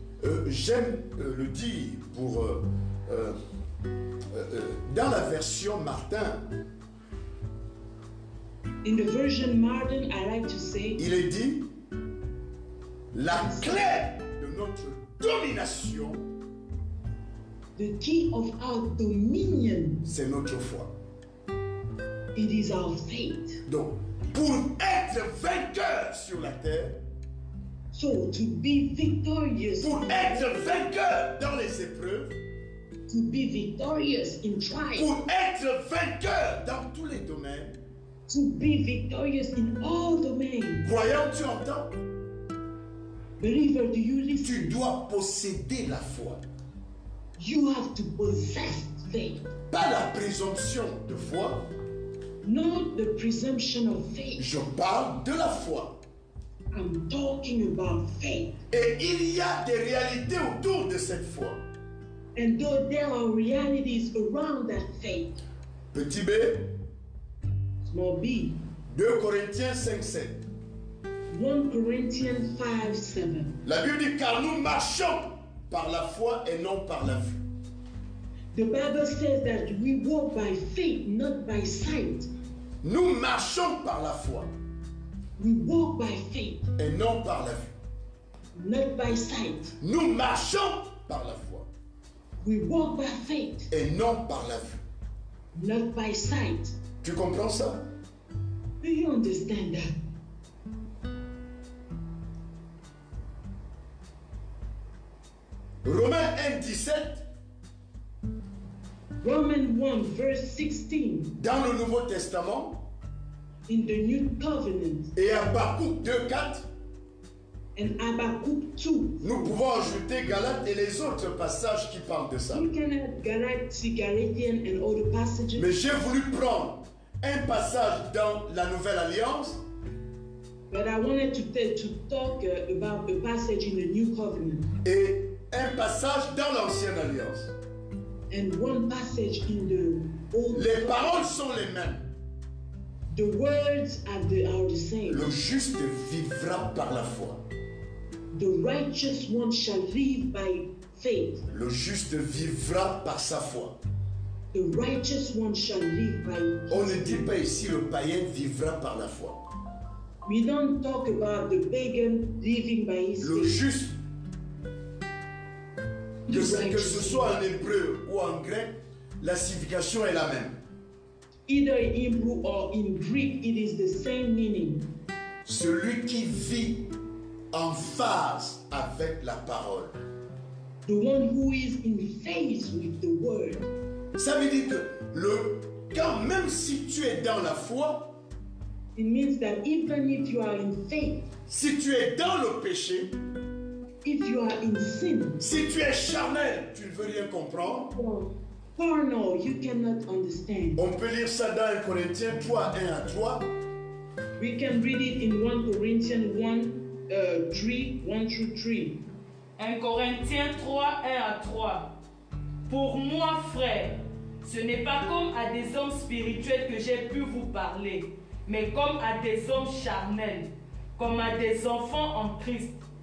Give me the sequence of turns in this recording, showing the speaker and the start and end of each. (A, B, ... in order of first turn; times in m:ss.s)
0:00.2-0:03.4 A
0:04.3-0:06.5 A
0:08.8-0:11.0 B
0:11.0-0:11.7 A
0:13.1-0:16.3 A
0:13.3-0:13.8 B
0:17.8-0:20.0 B
0:20.0-0:20.9 A
0:22.4-0:23.6 B
0:23.7-0:27.0 A
0:27.9-0:30.8 B
0:29.8-0:32.4 A
0:33.1-0:35.1 B
0:35.0-0:37.8 A
0:38.3-0:40.9 B
0:40.8-0:42.0 A
0:43.4-0:44.8 B
0:44.4-0:46.4 A
0:47.4-0:49.4 B
0:49.7-0:51.7 A
0:52.4-0:54.5 B
0:54.4-0:55.9 A
0:56.7-0:58.6 B
0:58.7-1:01.6 A
1:02.4-1:05.4 B
1:05.9-1:06.7 A
1:07.8-1:08.6 B
1:08.9-1:10.4 A
1:11.3-1:13.6 B
1:13.6-1:17.4 A
1:18.5-1:22.3 B
1:22.8-1:24.5 A
1:25.4-1:26.7 B
1:26.8-1:27.7 A
1:28.6-1:29.8 B
1:29.8-1:31.7 A
1:32.4-1:33.7 B
1:33.7-1:34.8 A
1:35.5-1:36.8 B
1:37.0-1:37.9 A
1:38.8-1:40.0 B
1:45.8-1:47.2 A
1:49.2-1:51.4 B
1:51.4-1:52.8 A
1:53.7-1:55.1 B
1:55.2-1:56.7 A
1:57.8-1:59.6 B
1:59.2-2:02.7 A
2:02.5-2:05.8 B
2:05.6-2:09.6 A
2:10.7-2:14.7 B
2:14.8-2:17.5 A
2:18.3-2:21.3 B
2:20.5-2:22.1 A
2:23.1-2:25.4 B
2:25.1-2:27.4 A
2:28.3-2:31.4 B
2:31.5-2:33.8 A
2:34.5-2:37.3 B
2:36.7-2:39.4 A
2:40.2-2:43.6 B
2:43.2-2:44.0 A
2:46.3-2:47.4 B
2:46.3-2:50.6 A
2:51.5-2:54.8 B
2:55.4-2:56.9 A
2:57.5-3:00.0 A
3:00.9-3:03.7 B
3:04.2-3:08.2 A
3:09.0-3:11.3 B
3:11.5-3:13.2 A
3:14.0-3:15.4 B
3:15.4-3:18.0 A
3:17.8-3:20.8 B
3:20.8-3:23.5 A
3:24.4-3:29.0 B
3:29.6-3:31.9 C
3:32.7-3:42.8 C